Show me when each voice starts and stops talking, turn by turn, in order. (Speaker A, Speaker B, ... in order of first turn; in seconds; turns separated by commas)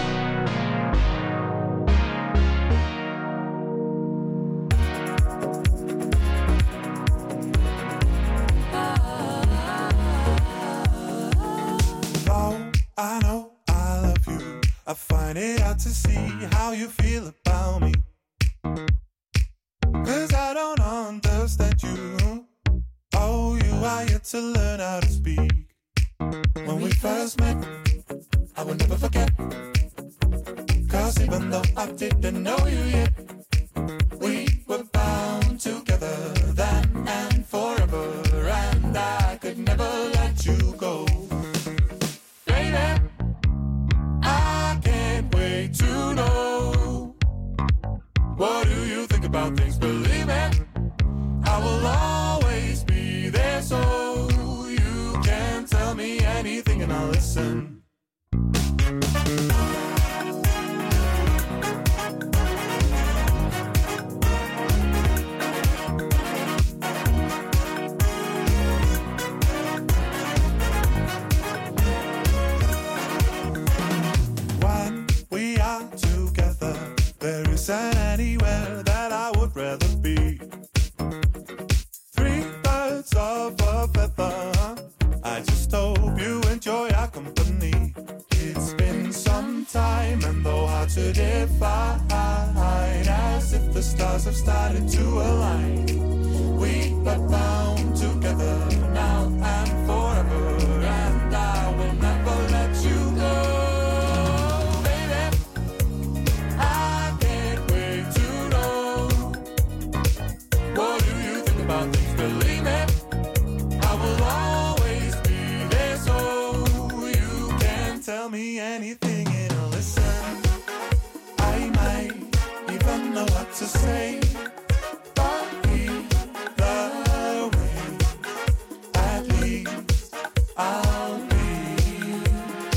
Speaker A: 12.1-18.0, Speaker A: 20.0-22.5, Speaker A: 23.1-25.7, Speaker A: 26.6-27.9, Speaker A: 28.5-29.7, Speaker A: 30.9-33.2, Speaker A: 34.1-41.4, Speaker A: 42.4-43.1, Speaker A: 44.2-47.2, Speaker A: 48.3-50.6, Speaker A: 51.4-57.8, Speaker A: 74.5-80.5, Speaker A: 82.1-105.4, Speaker A: 106.5-109.5, Speaker A: 110.7-113.0, Speaker A: 113.8-120.6, Speaker A: 121.4-124.5, Speaker A: 125.1-128.2, Speaker A: 128.9-132.6